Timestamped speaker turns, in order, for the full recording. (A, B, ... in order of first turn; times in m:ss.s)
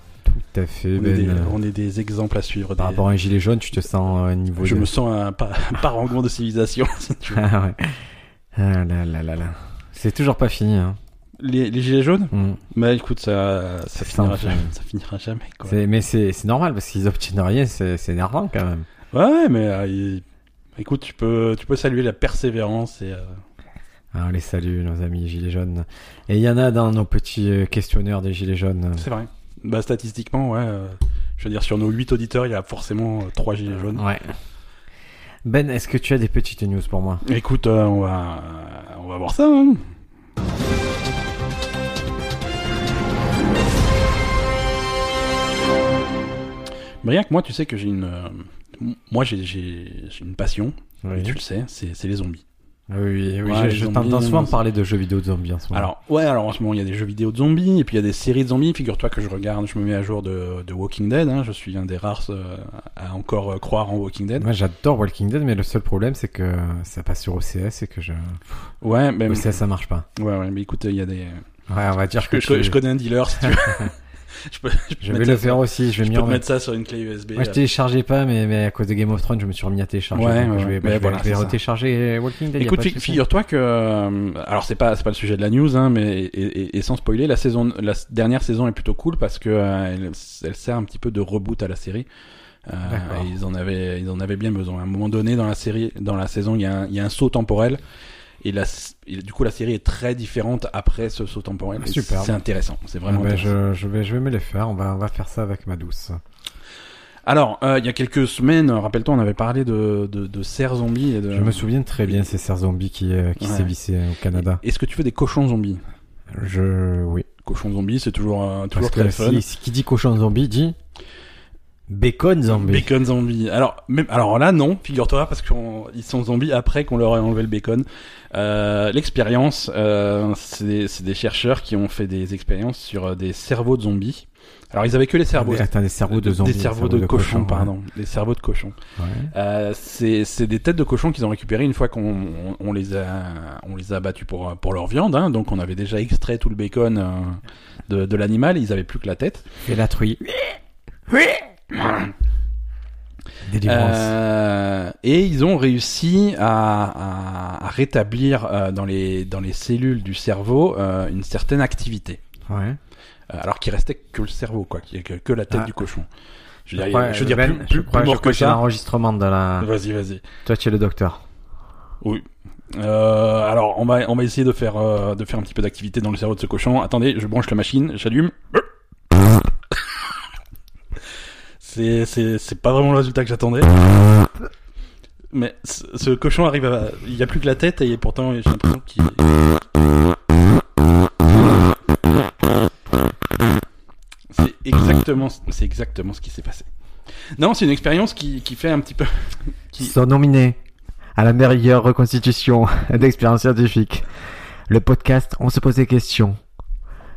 0:00.2-0:01.6 A
0:01.0-0:03.0 B
0:02.8-0:04.9 A
0:04.6-0:07.4 B
0:07.3-0:11.0 A
0:11.4-0:15.8 B
0:12.3-0:12.6 A
0:13.9-0:14.7 A
0:15.6-0:18.8 A
0:19.1-0:20.2 B
0:20.8-0:23.4 B
0:24.1-0:29.1 A
0:29.0-0:34.0 B
0:33.9-0:34.3 A
0:35.4-0:37.2 A
0:37.2-0:39.8 B
0:47.0-0:52.4 B
0:51.0-0:51.4 A
0:52.9-0:55.9 A
0:53.4-0:54.5 B
0:55.7-1:04.5 B
1:04.4-1:08.4 A
1:08.8-1:09.6 B
1:09.3-1:10.0 A
1:10.2-1:11.4 B
1:11.7-1:12.8 A
1:12.2-1:17.6 B
1:13.4-1:13.8 A
1:15.0-1:16.4 A
1:17.4-1:23.2 A
1:20.1-1:21.6 B
1:22.6-1:32.1 B
1:32.6-1:37.8 B
1:32.8-1:33.3 A
1:38.4-1:43.5 B
1:41.8-1:42.3 A
1:43.0-1:46.2 A
1:47.2-1:51.6 B
1:51.3-1:54.6 A
1:53.4-1:53.7 B
1:54.6-1:55.8 B
1:56.3-1:57.3 A
1:57.4-1:59.4 B
1:58.7-2:00.8 A
2:01.9-2:02.9 A
2:02.5-2:18.8 B
2:15.4-2:17.7 A
2:19.0-2:19.3 A
2:19.3-2:29.6 B
2:29.6-2:30.2 A
2:31.1-2:31.4 A
2:31.7-2:32.1 B
2:33.5-2:34.1 A
2:33.6-2:42.2 B
2:42.5-2:42.8 A
2:43.3-2:46.1 B
2:46.7-2:48.6 B
2:46.8-2:49.7 A
2:49.6-2:50.2 B
2:50.4-2:51.2 A
2:52.0-2:58.6 B
3:01.6-3:03.8 B
3:05.3-3:09.4 B
3:14.3-3:16.7 B
3:17.4-3:19.9 B
3:19.8-3:20.6 A
3:21.2-3:24.1 A
3:24.7-3:26.4 A